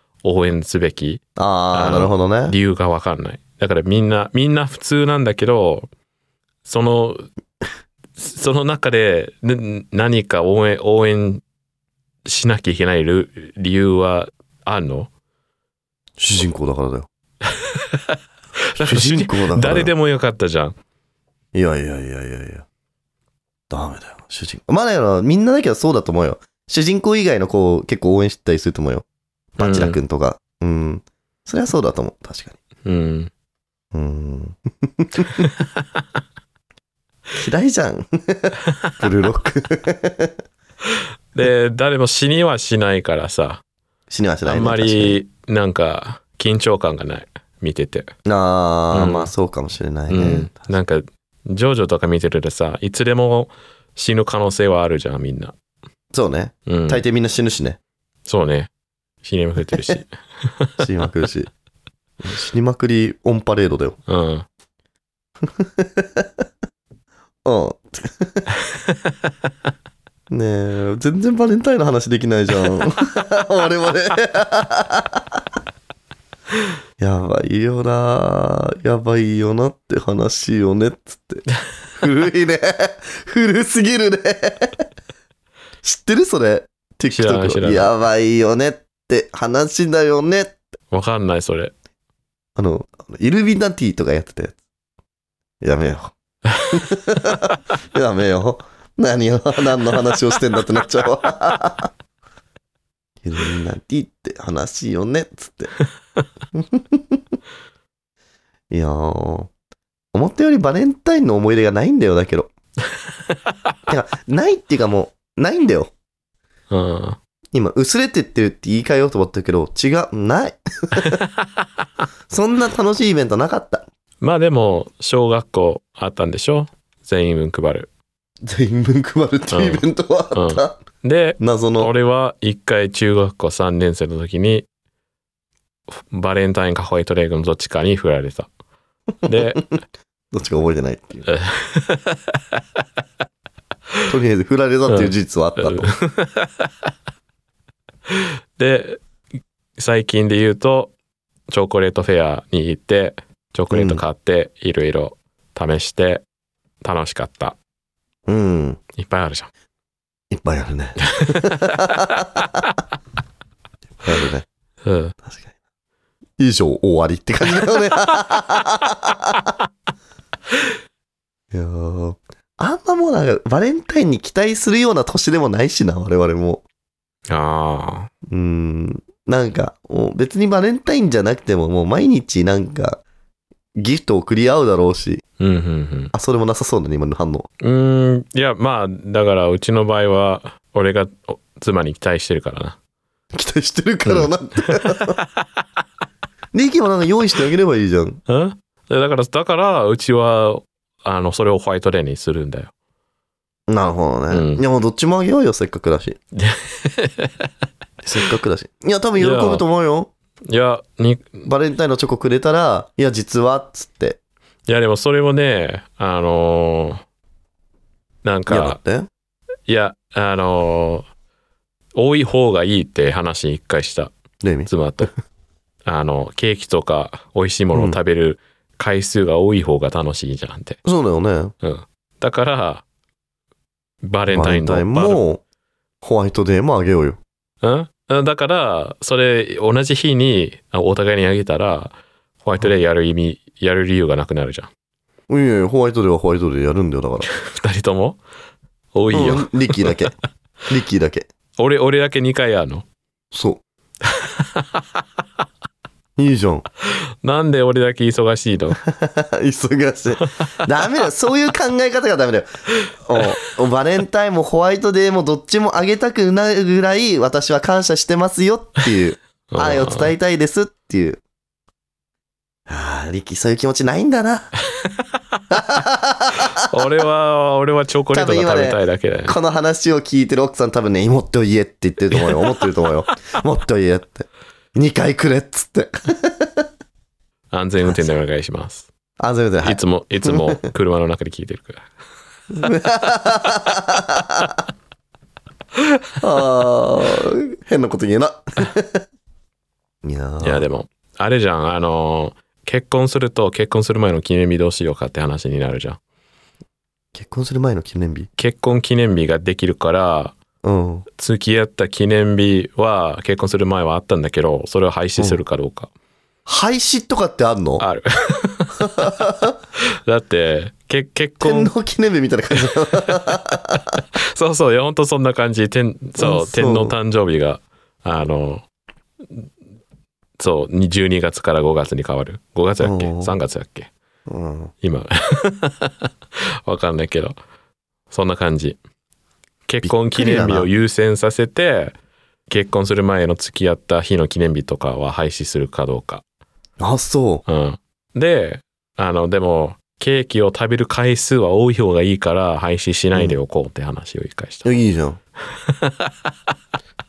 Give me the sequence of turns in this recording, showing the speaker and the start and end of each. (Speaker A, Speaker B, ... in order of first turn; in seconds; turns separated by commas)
Speaker A: 0.2-5.9, Speaker B: 1.4-2.5, Speaker A: 6.6-7.3, Speaker A: 8.2-11.4, Speaker A: 12.2-15.1, Speaker B: 16.2-17.1, Speaker A: 17.5-18.2, Speaker A: 18.7-20.8, Speaker B: 18.8-19.9, Speaker B: 21.5-22.7, Speaker B: 23.7-29.1, Speaker B: 29.6-32.6, Speaker A: 29.6-30.0, Speaker A: 32.9-33.3, Speaker B: 33.9-35.5, Speaker A: 35.4-35.7, Speaker B: 37.4-40.4, Speaker A: 41.0-43.6, Speaker B: 44.1-45.2, Speaker A: 44.5-48.1, Speaker B: 48.2-50.6, Speaker A: 48.9-49.3, Speaker A: 50.1-55.5, Speaker B: 56.1-57.8, Speaker A: 56.7-57.0, Speaker A: 58.2-58.7, Speaker A: 59.2-60.9, Speaker B: 60.8-61.5, Speaker B: 62.2-64.0, Speaker A: 64.1-64.5, Speaker B: 65.5-66.3, Speaker B: 67.5-68.5, Speaker A: 68.6-69.3, Speaker B: 70.3-75.4, Speaker B: 77.0-84.9, Speaker B: 85.8-90.6, Speaker A: 87.1-87.9, Speaker A: 90.9-91.7, Speaker B: 92.6-94.5, Speaker B: 95.6-96.1, Speaker B: 96.7-101.9, Speaker B: 103.2-105.7, Speaker B: 106.5-107.2, Speaker B: 108.7-109.5, Speaker B: 110.1-112.5, Speaker B: 113.9-115.9, Speaker A: 116.7-117.2, Speaker B: 117.5-121.2, Speaker A: 121.0-121.6, Speaker B: 122.3-123.9, Speaker A: 124.2-127.9, Speaker B: 128.4-130.8, Speaker A: 129.5-134.7, Speaker B: 131.4-131.9, Speaker A: 135.9-138.5, Speaker A: 139.2-139.6, Speaker B: 139.3-139.7, Speaker B: 140.3-141.3, Speaker A: 141.3-142.6, Speaker B: 144.1-145.9, Speaker A: 144.9-146.7, Speaker A: 148.1-149.0, Speaker A: 149.8-150.9, Speaker A: 151.5-156.2, Speaker B: 153.7-154.0, Speaker A: 156.8-157.6, Speaker B: 158.3-158.8, Speaker A: 159.0-159.5, Speaker B: 160.3-162.4, Speaker A: 161.1-161.7, Speaker B: 164.0-164.5, Speaker A: 164.8-165.2, Speaker B: 166.4-169.5, Speaker B: 171.5-176.6, Speaker A: 177.3-178.1, Speaker B: 178.3-183.0, Speaker B: 183.8-185.2, Speaker A: 185.4-186.1, Speaker B: 186.1-187.5, Speaker A: 187.6-192.8, Speaker B: 193.3-195.2, Speaker A: 194.1-195.4, Speaker B: 196.5-198.2, Speaker A: 198.3-202.7, Speaker B: 203.7-206.2, Speaker A: 204.3-204.6, Speaker A: 206.3-207.5, Speaker B: 208.0-210.1, Speaker A: 209.2-209.7, Speaker A: 210.5-211.5, Speaker B: 211.5-214.2, Speaker A: 214.7-217.0, Speaker A: 218.2-218.8, Speaker B: 218.5-219.1, Speaker A: 219.7-221.1, Speaker A: 221.9-224.1, Speaker B: 224.4-224.7, Speaker A: 224.7-225.1, Speaker A: 225.9-230.8, Speaker B: 227.7-228.0, Speaker B: 230.8-231.5, Speaker A: 231.6-232.8, Speaker A: 234.0-235.2, Speaker B: 234.3-235.4, Speaker B: 236.0-237.2, Speaker A: 237.6-244.7, Speaker B: 245.3-247.3, Speaker A: 247.4-248.2, Speaker A: 248.9-250.0, Speaker B: 249.1-250.1, Speaker B: 250.7-251.3, Speaker A: 251.6-252.8, Speaker B: 253.3-253.6, Speaker A: 254.1-254.8, Speaker B: 256.2-256.6, Speaker A: 256.9-258.8, Speaker B: 258.8-262.5, Speaker A: 262.9-263.2, Speaker B: 263.1-271.2, Speaker A: 269.5-270.1, Speaker B: 272.7-274.5, Speaker B: 275.5-276.6, Speaker A: 276.6-279.4, Speaker B: 278.1-286.7, Speaker A: 282.2-282.6, Speaker A: 287.5-288.9, Speaker B: 287.8-288.1, Speaker B: 289.2-290.6, Speaker A: 289.6-291.9, Speaker B: 292.5-294.6, Speaker B: 296.2-299.1, Speaker B: 300.0-300.7, Speaker A: 300.4-306.0, Speaker B: 307.1-308.3, Speaker A: 308.4-310.4, Speaker B: 310.6-311.1, Speaker A: 311.2-315.9, Speaker B: 316.5-317.9, Speaker A: 317.8-319.3, Speaker B: 318.8-319.5, Speaker A: 319.8-321.7, Speaker B: 321.4-323.8, Speaker A: 322.6-323.4, Speaker A: 324.3-328.6, Speaker B: 326.2-326.9, Speaker A: 330.4-333.9, Speaker B: 332.8-333.3, Speaker B: 334.3-334.7, Speaker A: 334.8-336.1, Speaker A: 336.7-337.4, Speaker A: 338.1-338.8, Speaker A: 339.7-341.9, Speaker B: 339.8-340.7, Speaker A: 342.5-346.2, Speaker B: 346.8-347.4, Speaker A: 347.5-354.7, Speaker B: 354.6-355.2, Speaker A: 355.5-356.1